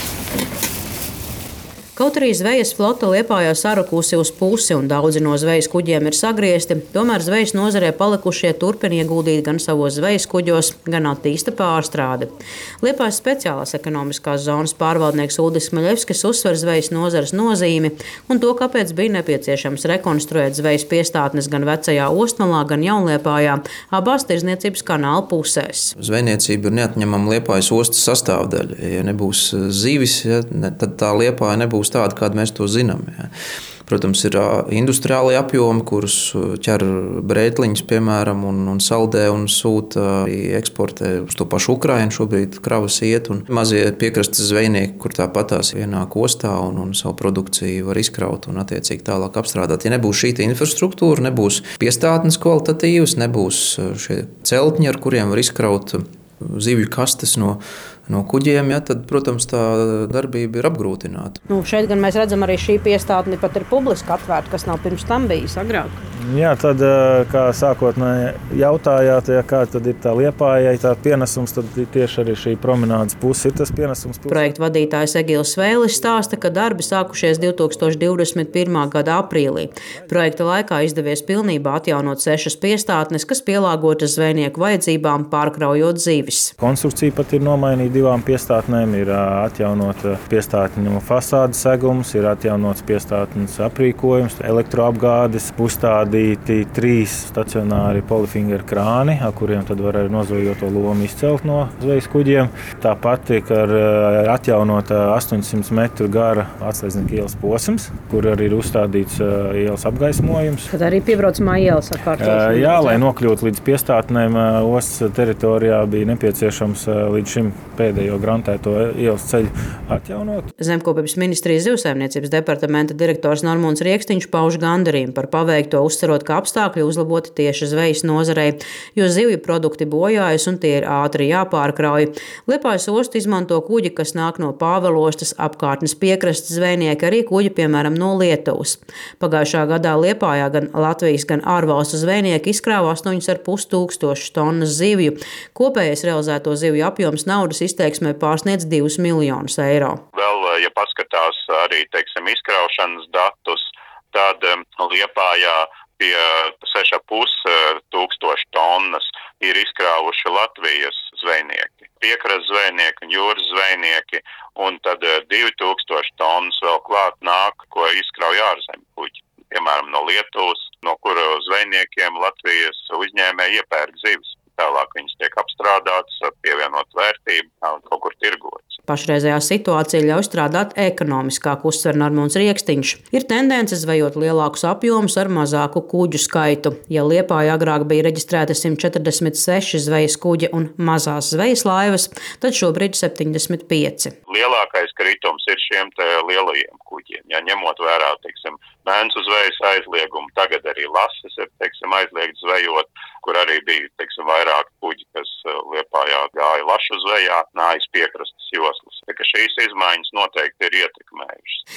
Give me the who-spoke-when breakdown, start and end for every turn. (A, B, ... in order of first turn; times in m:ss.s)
0:02.0-0:25.9 A
0:26.0-0:33.3 B
0:33.9-1:01.4 B
1:01.5-1:06.0 A
1:06.2-1:14.5 C
1:14.3-1:26.5 A
1:26.6-1:50.7 C
1:50.7-1:53.0 A
1:52.2-2:00.5 C
2:00.6-2:30.0 A
2:30.1-2:58.8 D
2:58.9-3:14.1 A
3:14.3-3:31.6 D